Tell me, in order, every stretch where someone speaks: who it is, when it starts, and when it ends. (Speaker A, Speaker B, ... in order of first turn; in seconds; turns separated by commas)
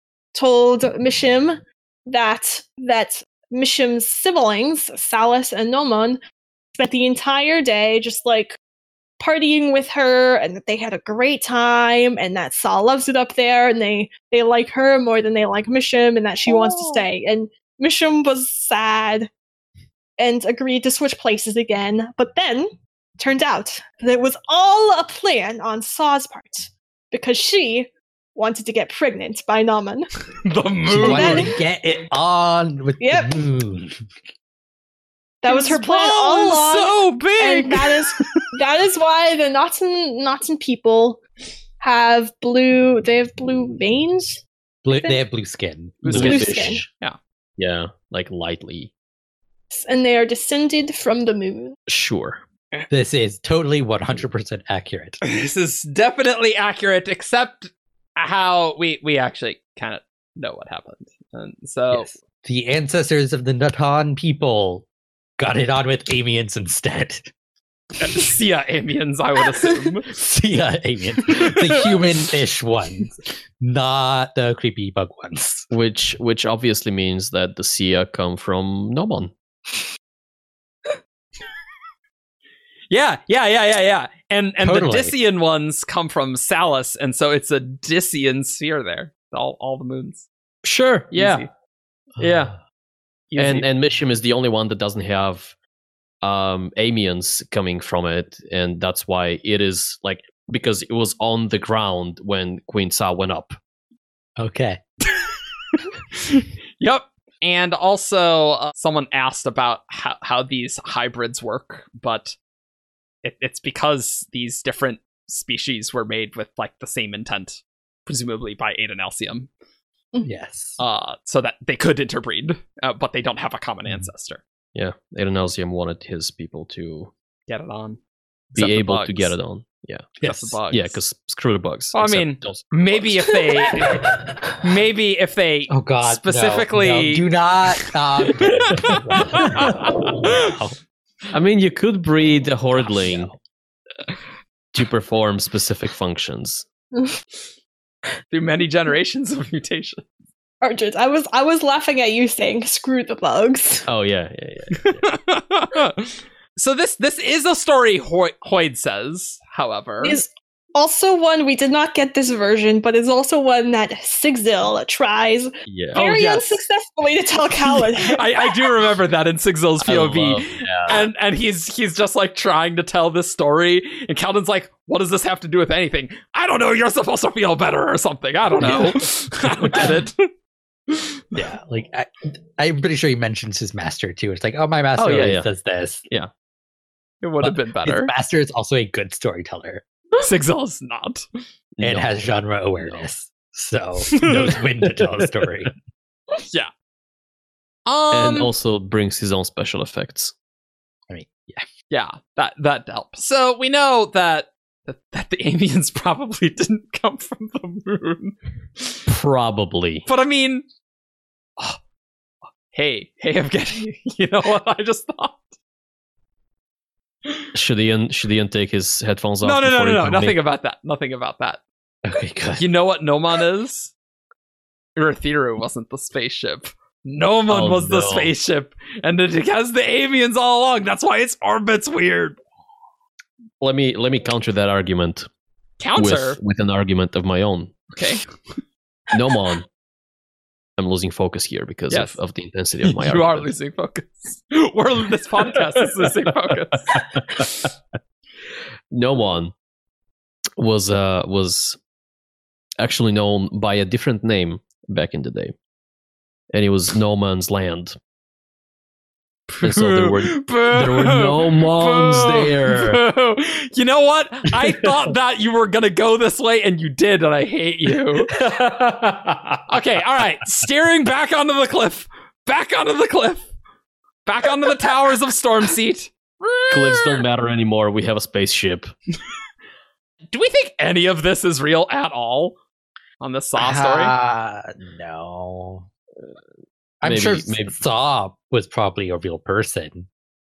Speaker A: 0.3-6.2, Speaker A: 6.8-8.6, Speaker A: 9.2-19.3, Speaker B: 16.5-17.0, Speaker A: 20.2-30.1, Speaker B: 30.4-31.5, Speaker C: 30.9-34.0, Speaker A: 31.0-31.5, Speaker A: 33.0-33.3, Speaker A: 35.4-41.2, Speaker B: 35.4-38.3, Speaker A: 41.8-45.2, Speaker C: 44.8-46.6, Speaker B: 46.0-47.2, Speaker D: 46.1-46.9, Speaker A: 46.1-46.8, Speaker D: 47.6-48.9, Speaker A: 49.7-51.8, Speaker D: 51.9-52.4, Speaker C: 52.9-55.2, Speaker B: 55.2-62.1, Speaker C: 61.9-64.9, Speaker C: 65.4-67.3, Speaker B: 68.0-70.1, Speaker C: 70.1-75.7, Speaker B: 71.3-71.9, Speaker D: 75.7-79.3, Speaker B: 82.9-90.3, Speaker C: 84.6-85.2, Speaker D: 90.6-91.5, Speaker B: 91.1-91.5, Speaker D: 92.2-92.5, Speaker B: 92.2-92.6, Speaker B: 93.3-93.7, Speaker D: 93.4-95.5, Speaker D: 96.2-103.6, Speaker C: 104.4-104.8, Speaker B: 106.1-112.3, Speaker B: 113.2-119.5, Speaker C: 120.2-120.8, Speaker B: 120.8-124.4, Speaker D: 124.7-127.1, Speaker B: 127.5-128.0, Speaker B: 128.5-129.3, Speaker D: 128.5-130.2, Speaker C: 130.2-130.6, Speaker B: 130.2-131.0, Speaker D: 130.7-133.3, Speaker B: 131.9-134.1, Speaker C: 134.0-134.5, Speaker B: 134.6-137.3, Speaker C: 135.7-140.7, Speaker B: 138.2-140.4, Speaker D: 141.3-143.3, Speaker C: 142.7-143.4, Speaker D: 144.7-146.7, Speaker A: 146.9-147.2, Speaker B: 148.3-150.1, Speaker A: 150.6-153.8, Speaker D: 153.9-155.1, Speaker B: 154.8-160.2, Speaker A: 160.0-168.5, Speaker D: 165.7-166.0, Speaker B: 165.9-166.6, Speaker B: 167.6-180.3, Speaker D: 169.8-171.1, Speaker C: 178.6-178.9, Speaker B: 180.9-181.2, Speaker C: 181.3-186.0, Speaker D: 185.0-185.5, Speaker B: 187.2-188.1, Speaker C: 187.4-189.8, Speaker B: 190.2-191.2, Speaker D: 191.8-192.3, Speaker C: 191.8-195.7, Speaker D: 192.8-193.0, Speaker B: 194.1-194.4, Speaker D: 194.8-195.3, Speaker B: 197.8-198.5, Speaker D: 198.1-200.3, Speaker C: 201.1-201.6, Speaker B: 201.9-209.0, Speaker D: 209.1-210.1, Speaker B: 210.1-210.6, Speaker B: 212.7-215.5, Speaker D: 217.5-220.4, Speaker B: 219.4-221.6, Speaker C: 222.0-222.6, Speaker B: 222.6-223.9, Speaker B: 224.9-232.4, Speaker D: 227.5-228.3, Speaker D: 233.6-235.3, Speaker B: 235.8-236.4, Speaker D: 235.9-237.9, Speaker B: 237.9-238.2, Speaker D: 239.1-239.7, Speaker D: 240.8-243.5, Speaker B: 241.9-242.2, Speaker B: 242.8-247.0, Speaker D: 246.9-247.7, Speaker D: 248.9-249.5, Speaker D: 250.6-251.8, Speaker D: 252.8-255.5, Speaker D: 256.5-257.9, Speaker B: 259.5-268.3, Speaker D: 259.6-263.0, Speaker D: 268.3-269.7, Speaker B: 269.7-273.5, Speaker B: 274.2-277.2, Speaker D: 276.7-278.9, Speaker B: 280.3-282.6, Speaker B: 283.2-284.1, Speaker C: 283.6-285.9, Speaker C: 287.0-290.1, Speaker D: 287.0-287.7